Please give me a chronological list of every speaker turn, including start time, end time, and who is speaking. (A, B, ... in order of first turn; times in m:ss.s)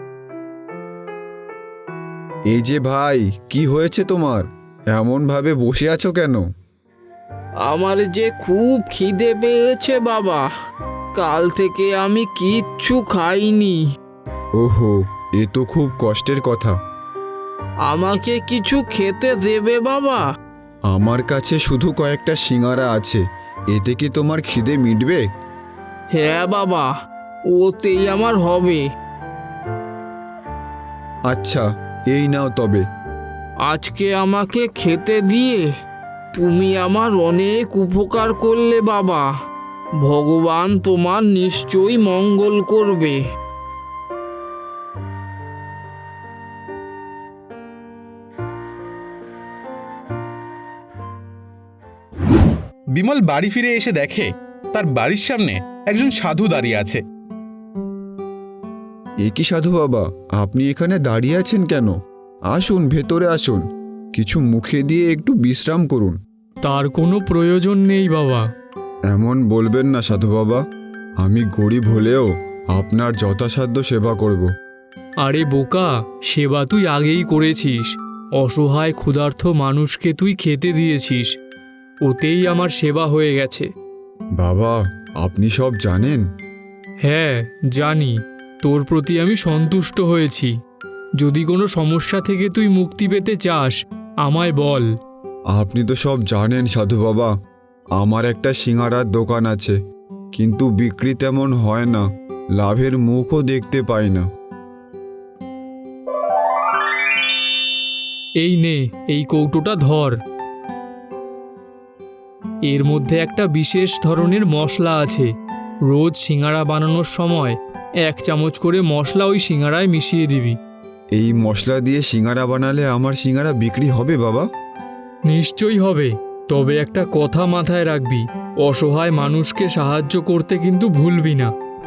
0:02.5-0:06.4 A
0:07.6-0:10.4 B
0:11.1-0:13.8 B
0:14.6-0:16.8 A
0:17.9-0:20.2 B
0:20.9-0:25.2 A
0:26.1-0:26.9 B
0:27.5-0:28.8 B
0:31.3-0:32.8 A
0:33.6-0:35.6 B
0:36.3-0:39.2 B
0:40.0-0:43.2 B
0:53.0-0:57.0 C
0:59.2-1:01.9 A
1:02.5-1:06.2 A
1:06.6-1:08.4 D
1:09.1-1:10.6 A
1:11.2-1:14.5 A
1:15.2-1:21.3 D
1:22.0-1:23.7 D
1:24.4-1:26.2 A
1:27.0-1:30.5 D
1:31.2-1:34.8 D
1:35.5-1:37.3 A
1:38.0-1:39.8 A
1:40.3-1:42.0 A
1:42.6-1:44.3 A
1:48.4-1:50.1 D
1:52.7-1:55.3 D
1:55.9-2:00.6 D
2:01.1-2:04.5 A
2:05.3-2:11.5 D